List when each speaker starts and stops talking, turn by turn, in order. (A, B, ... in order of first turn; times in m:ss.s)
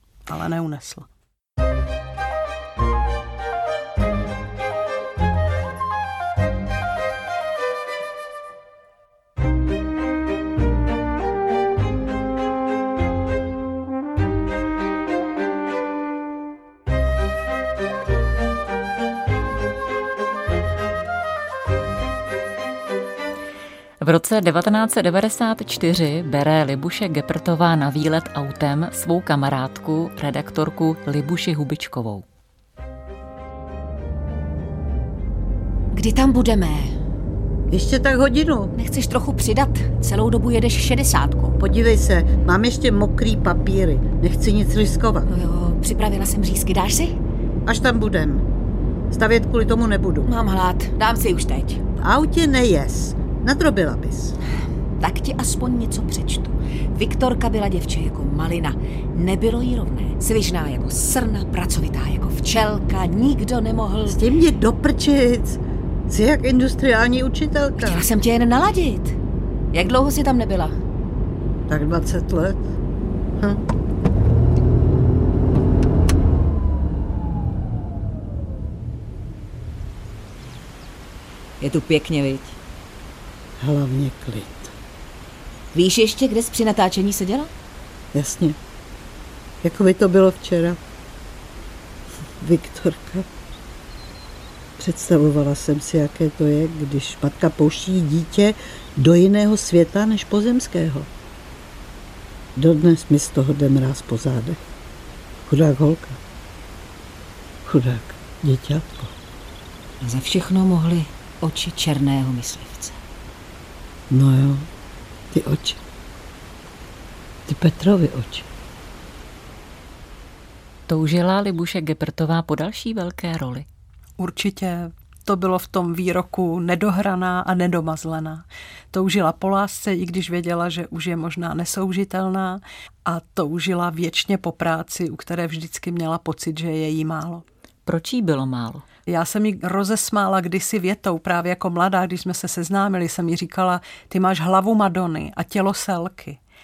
0:00.3-0:01.1 A
0:24.0-0:32.2 B
0:35.9-0:37.0 C
0:37.7-0:38.7 D
0:38.7-0:41.6 C
0:41.6-0:45.3 D
0:45.3-0:47.2 C
0:47.6-0:48.4 D
0:49.1-0:50.3 D
0:50.2-0:51.8 C
0:52.0-0:54.4 D
0:55.0-1:04.2 C
1:04.1-1:08.0 D
1:07.8-1:09.2 C
1:09.7-1:10.7 C
1:11.7-1:12.7 D
1:13.4-1:13.6 D
1:21.6-1:22.6 C
1:23.6-1:24.7 D
1:25.7-1:27.5 C
1:28.1-1:28.6 D
1:29.6-1:30.8 D
1:32.4-1:33.3 D
1:34.8-1:41.1 D
1:42.5-1:44.6 D
1:45.4-1:46.2 D
1:47.6-1:49.1 D
1:50.0-1:53.0 C
1:54.1-1:54.7 D
1:55.3-1:55.8 D
1:57.5-1:58.5 D
2:00.9-2:03.6 B
2:04.2-2:17.4 A
2:17.8-2:18.8 B
2:19.1-2:26.4 A